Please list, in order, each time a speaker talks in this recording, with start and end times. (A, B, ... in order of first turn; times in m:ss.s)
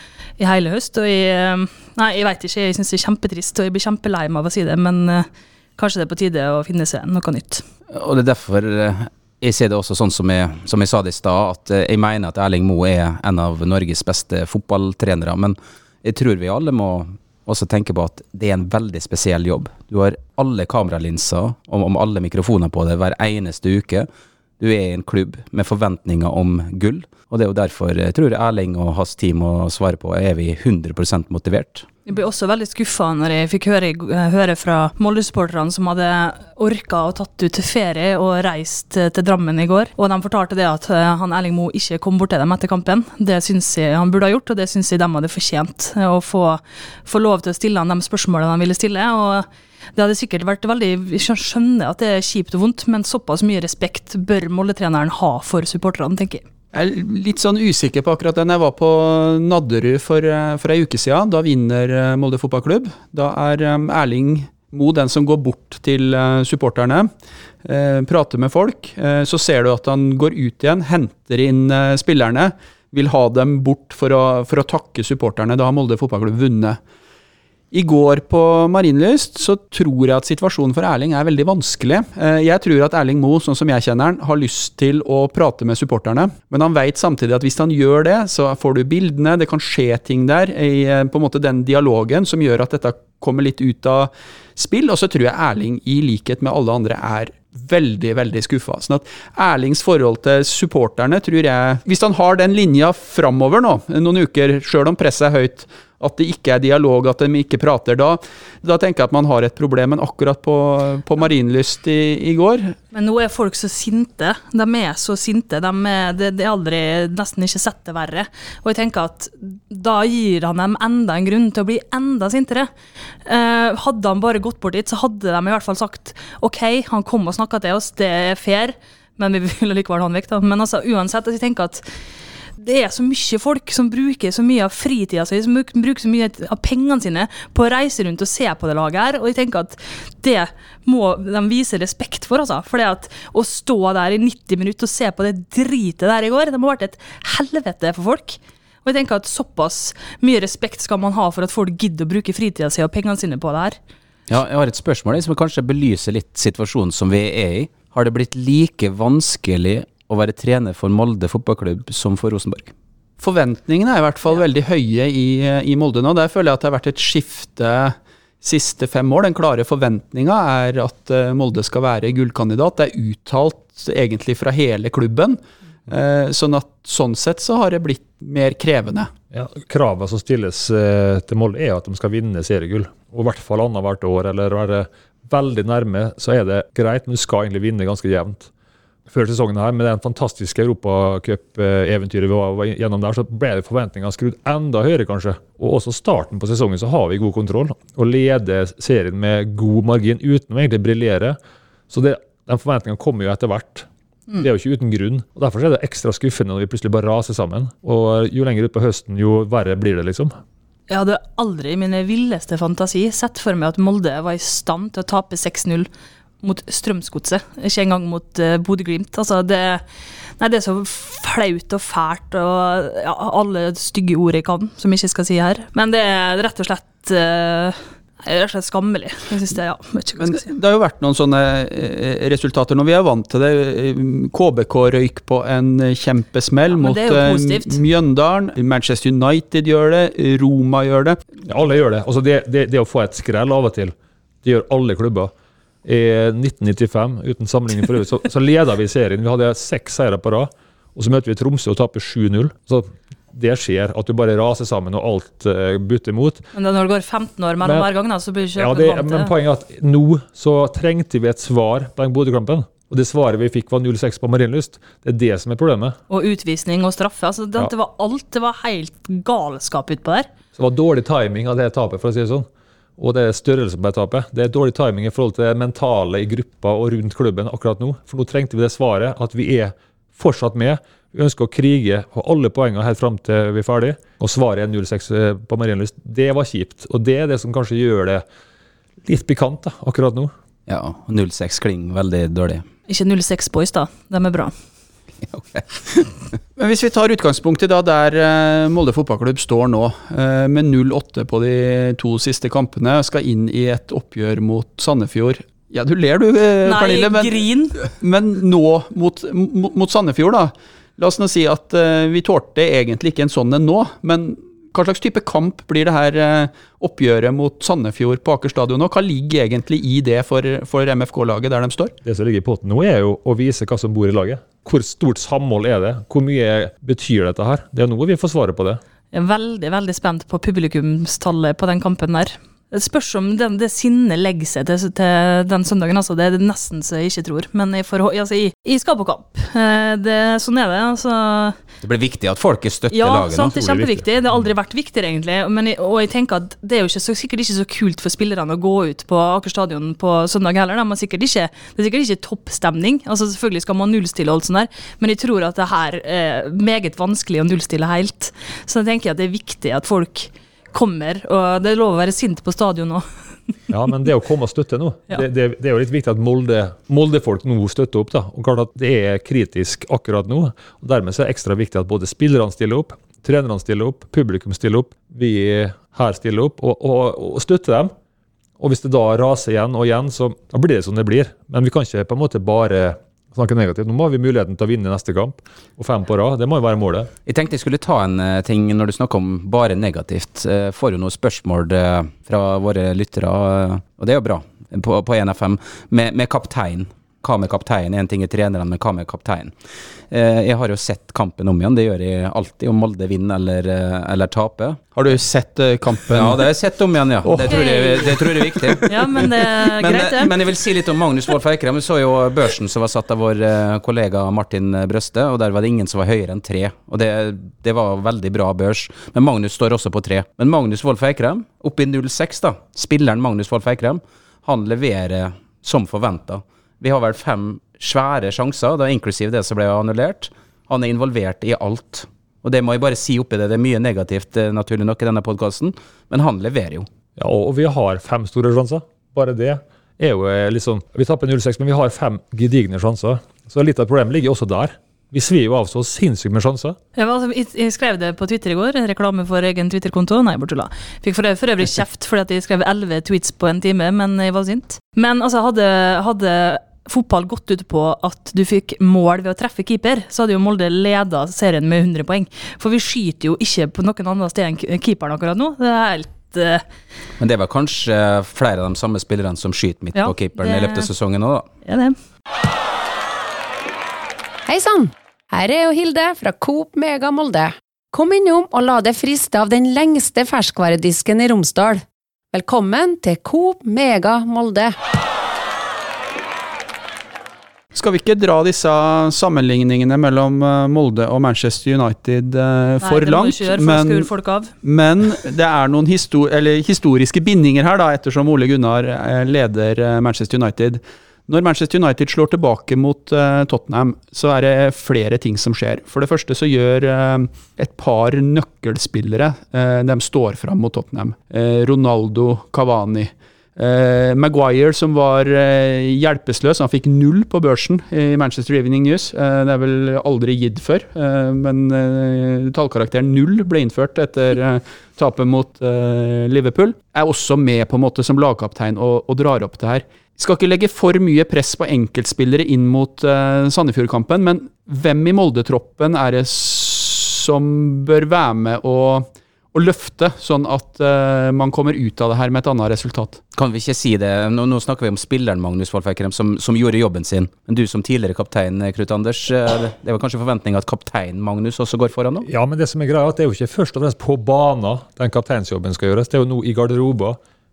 0:00.4-0:07.6 A
0:07.9-0:24.1 B
0:24.6-0:31.8 B
0:32.0-0:56.4 A
0:56.7-1:07.1 C
1:07.6-1:16.8 C
1:17.7-1:52.8 C
1:52.9-2:02.7 A
2:03.2-2:11.8 A
2:12.6-2:33.8 A
2:34.3-2:42.7 B
2:43.2-2:59.1 C
2:59.3-3:08.5 D
3:09.1-3:21.4 D
3:21.9-3:23.9 D
3:24.4-3:30.3 D
3:30.9-3:35.9 A
3:36.4-3:39.8 A
3:40.4-3:50.5 A
3:50.2-4:01.2 C
3:56.7-3:57.8 A
4:01.4-4:05.3 D
4:05.8-4:16.4 D
4:16.5-4:19.3 A
4:18.6-4:26.0 D
4:26.1-4:30.3 A
4:30.6-4:32.5 D
4:33.0-4:48.2 D
4:49.0-4:50.3 D
4:50.7-4:52.6 B
4:52.9-4:54.5 A
4:55.3-4:56.1 B
4:56.6-5:21.9 C
5:06.6-5:07.8 A
5:22.0-5:28.8 D
5:29.1-5:41.6 A
5:41.8-5:43.6 B
5:42.9-6:03.0 A
5:43.6-5:44.0 D
6:03.7-6:17.9 D
6:18.6-6:27.1 D
6:27.2-6:39.5 B
6:40.1-6:44.8 B
6:44.9-6:46.5 C
6:46.1-7:16.9 B
6:47.2-6:48.8 C
6:47.5-6:48.1 A
6:48.8-6:50.3 A
7:17.2-7:26.8 D
7:27.0-7:46.6 A
7:47.2-7:51.5 B
7:49.9-7:50.9 A
7:51.6-7:52.0 A
7:54.4-8:04.7 E
8:07.7-8:14.1 C
8:12.8-8:14.5 A
8:14.6-9:03.2 C
9:03.3-9:12.3 B
9:12.3-9:17.2 D